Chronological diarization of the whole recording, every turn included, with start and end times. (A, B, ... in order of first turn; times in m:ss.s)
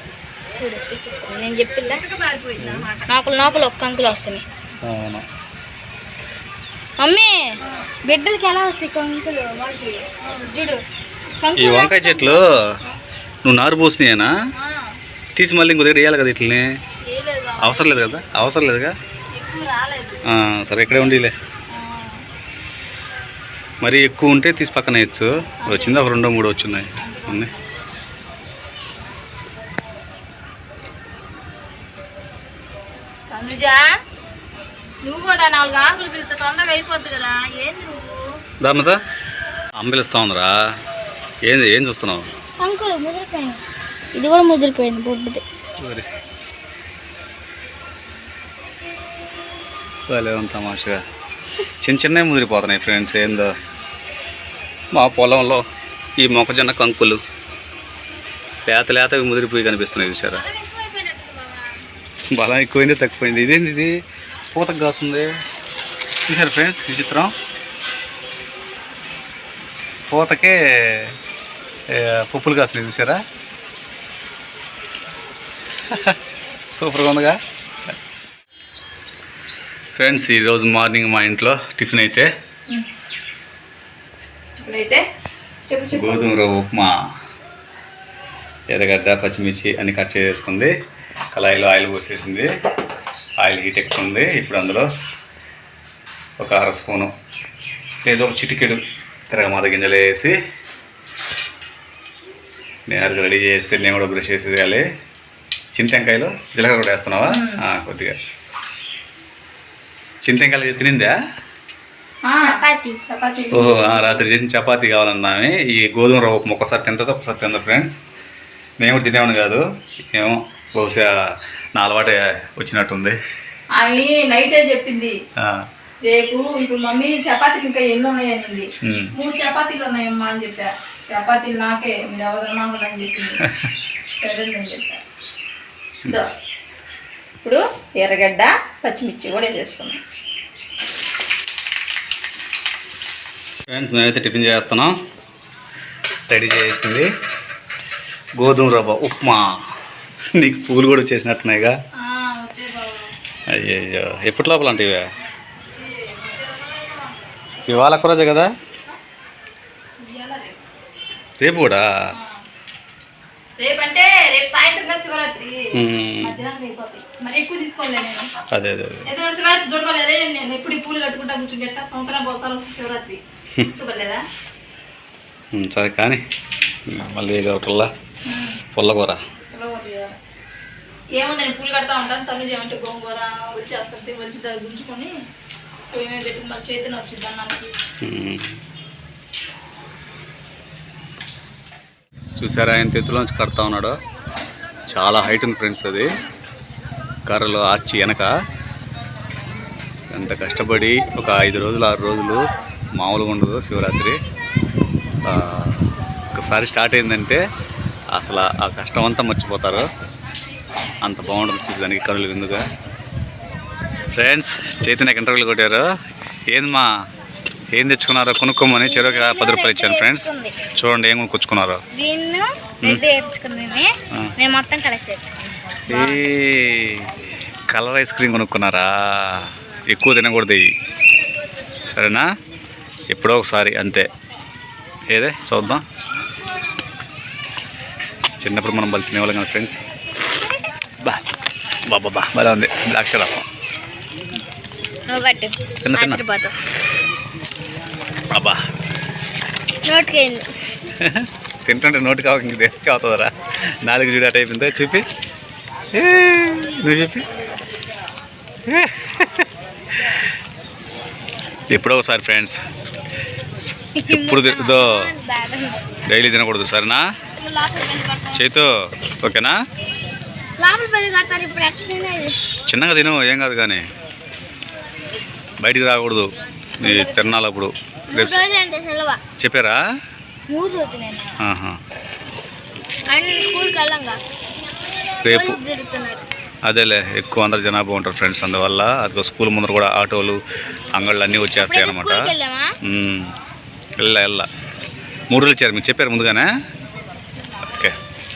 0:00.5-0:02.0 A
0:01.9-0:03.7 B
0:02.6-0:02.8 C
0:03.1-0:04.4 A
0:04.8-0:05.2 C
0:07.0-0:10.8 A
0:11.4-0:12.4 A
0:11.6-0:12.8 C
0:13.4-0:14.3 C
0:14.6-0:15.0 B
0:15.4-0:16.7 C
0:17.0-0:18.1 B
0:17.6-0:18.9 C
0:19.3-0:20.2 B
0:20.2-0:21.3 C
0:20.9-0:21.1 B
0:21.7-0:22.2 B
0:23.8-0:27.5 C
0:25.6-0:26.0 B
0:27.0-0:27.6 B
0:33.3-0:33.9 B
0:35.0-0:38.2 B
0:38.6-0:39.0 C
0:39.8-0:40.7 C
0:41.4-0:42.3 C
0:42.6-0:43.6 A
0:44.1-0:45.4 A
0:45.8-0:46.0 C
0:50.1-0:51.0 C
0:51.8-0:53.5 C
0:54.9-0:55.6 C
0:56.2-0:57.2 C
0:58.7-1:00.4 C
1:00.3-1:01.8 B
1:02.3-1:04.0 C
1:04.5-1:05.3 C
1:06.3-1:07.3 C
1:10.1-1:11.2 C
1:11.9-1:13.2 C
1:15.9-1:16.2 C
1:16.8-1:17.4 C
1:20.0-1:22.3 C
1:24.6-1:25.0 B
1:25.7-1:26.2 B
1:25.9-1:26.9 C
1:28.7-1:30.7 C
1:31.3-1:32.5 C
1:33.4-1:34.9 C
1:36.4-1:37.1 C
1:38.0-1:40.4 C
1:42.9-1:44.9 C
1:45.7-1:48.2 C
1:47.2-1:47.6 B
1:50.2-1:51.2 C
1:52.2-1:54.2 B
1:52.4-1:53.0 A
1:53.5-1:58.0 C
1:58.8-2:03.2 C
2:03.8-2:05.2 B
2:05.4-2:05.7 C
2:06.0-2:13.4 B
2:08.8-2:09.1 C
2:14.2-2:15.0 B
2:17.4-2:20.0 B
2:23.7-2:24.9 C
2:26.3-2:27.1 C
2:28.4-2:29.5 C
2:30.3-2:31.8 C
2:32.0-2:33.1 B
2:33.5-2:35.1 C
2:35.7-2:37.2 B
2:37.6-2:38.5 C
2:40.0-2:40.6 B
2:41.4-2:42.0 C
2:42.1-2:42.4 B
2:43.6-2:48.3 B
2:45.7-2:46.4 C
2:48.5-2:49.1 C
2:49.0-2:54.2 B
2:55.5-2:56.2 C
2:56.9-2:57.9 C
2:58.2-2:58.6 B
2:58.7-2:59.2 C
2:59.5-3:00.2 B
3:01.2-3:05.1 B
3:05.9-3:07.7 B
3:08.0-3:08.6 C
3:12.4-3:14.0 C
3:14.9-3:16.1 C
3:17.3-3:18.3 C
3:20.1-3:24.2 C
3:25.2-3:27.4 C
3:28.1-3:29.9 C
3:31.0-3:32.6 C
3:34.1-3:35.9 C
3:36.5-3:36.9 C
3:37.7-3:41.8 C
3:38.8-3:40.6 A
3:41.9-3:46.2 A
3:45.9-3:47.1 C
3:47.7-3:50.7 C
3:51.9-3:52.3 C
3:53.1-3:54.1 C
3:55.1-3:55.8 C
3:58.4-3:59.8 C
4:01.9-4:03.5 C
4:05.1-4:06.5 A
4:05.8-4:06.2 C
4:08.3-4:08.6 C
4:09.8-4:10.5 A
4:11.0-4:15.0 C
4:15.9-4:17.3 C
4:18.7-4:19.5 C
4:21.7-4:22.6 C
4:23.9-4:25.8 A
4:24.1-4:25.1 C
4:26.1-4:27.0 C
4:27.3-4:28.5 A
4:28.3-4:29.6 C
4:30.6-4:32.4 A
4:32.7-4:33.8 C
4:35.6-4:38.4 C
4:38.1-4:39.2 A
4:39.4-4:39.8 C
4:40.5-4:41.4 A
4:41.4-4:41.8 C
4:43.1-4:44.2 A
4:45.1-4:46.2 A
4:45.2-4:45.6 C
4:46.6-4:50.4 C
4:50.9-4:52.3 C
4:51.6-4:52.7 A
4:52.8-4:53.3 C
4:54.0-4:54.5 C
4:55.3-4:56.5 C
4:57.7-4:58.0 C